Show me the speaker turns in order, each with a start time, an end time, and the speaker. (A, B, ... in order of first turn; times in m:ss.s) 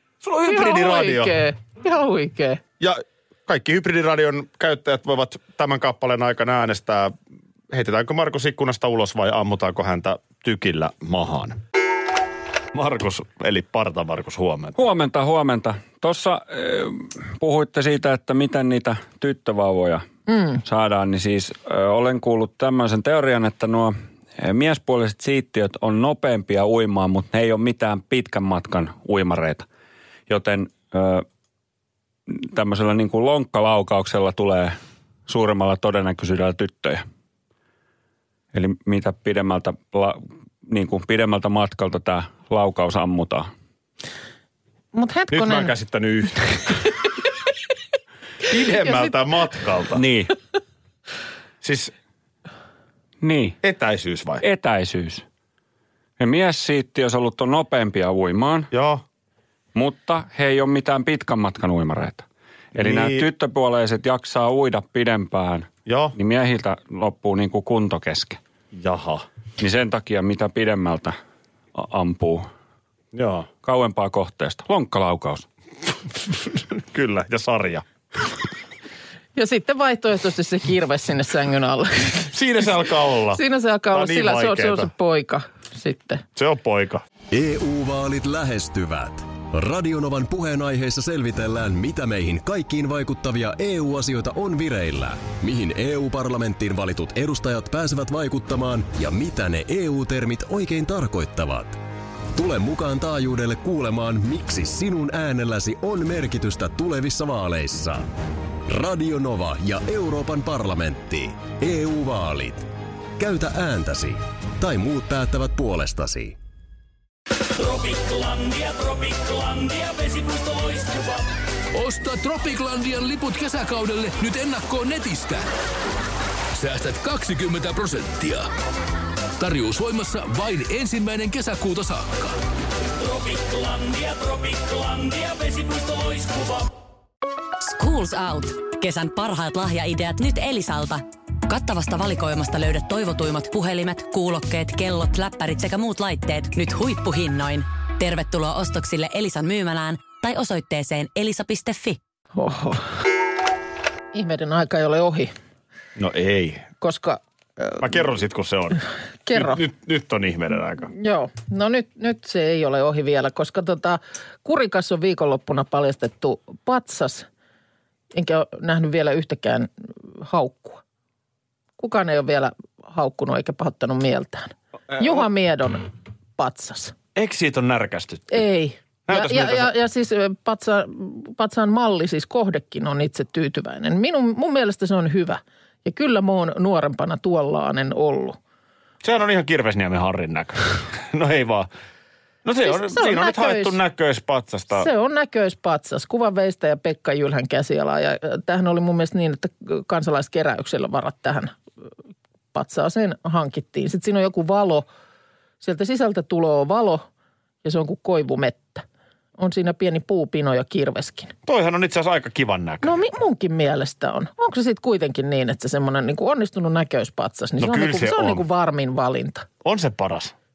0:00.2-0:01.4 A
0:00.5-0:02.6 B
0:02.8-0:07.1 A
0:07.7-0:11.6 A
0:12.7-0:14.8 A
0:14.8-0:20.0 C
0:20.3-0:20.6 B
0:20.6-0:29.7 C
0:30.3-0:31.2 C
0:32.3-0:34.8 C
0:35.3-0:37.0 C
0:38.5-0:43.5 C
0:44.9-0:45.7 B
0:45.3-0:46.8 A
0:48.5-0:50.0 A
0:48.8-0:49.1 B
0:50.0-0:50.3 C
0:51.6-0:51.9 A
0:53.2-0:53.6 C
0:53.6-0:54.4 A
0:54.4-0:55.2 C
0:56.2-0:58.7 C
0:58.7-0:59.0 A
0:59.8-1:08.4 C
1:02.7-1:03.3 A
1:05.9-1:06.2 A
1:08.7-1:09.2 A
1:09.6-1:11.2 C
1:11.8-1:12.5 C
1:13.1-1:13.5 A
1:13.6-1:15.5 C
1:16.2-1:17.8 A
1:19.4-1:22.3 B
1:22.3-1:24.9 A
1:23.3-1:26.2 B
1:26.4-1:27.0 A
1:27.3-1:41.8 D
1:42.4-1:48.1 D
1:48.7-1:56.4 D
1:57.6-1:59.1 C
1:59.6-2:01.0 E
2:01.7-2:05.5 E
2:06.6-2:08.5 E
2:09.4-2:12.3 E
2:13.9-2:16.6 E
2:17.6-2:32.0 F
2:32.4-2:32.9 B
2:34.1-2:35.3 B
2:36.0-2:36.7 A
2:36.8-2:37.9 B
2:37.8-2:40.9 A
2:39.3-2:39.6 B
2:40.9-2:47.3 B
2:48.1-2:50.8 B
2:51.8-2:57.0 B
2:54.9-2:55.2 A
2:57.2-2:58.4 A
2:58.3-3:08.4 B
2:59.1-2:59.7 A
3:09.0-3:11.7 A
3:12.4-3:14.9 A
3:12.6-3:13.8 B
3:14.7-3:21.6 B
3:22.5-3:24.9 B
3:25.6-3:27.0 B
3:27.6-3:28.8 B
3:29.4-3:31.4 B
3:31.5-3:33.0 A
3:32.8-3:39.5 B
3:37.6-3:38.4 A
3:39.6-3:40.4 A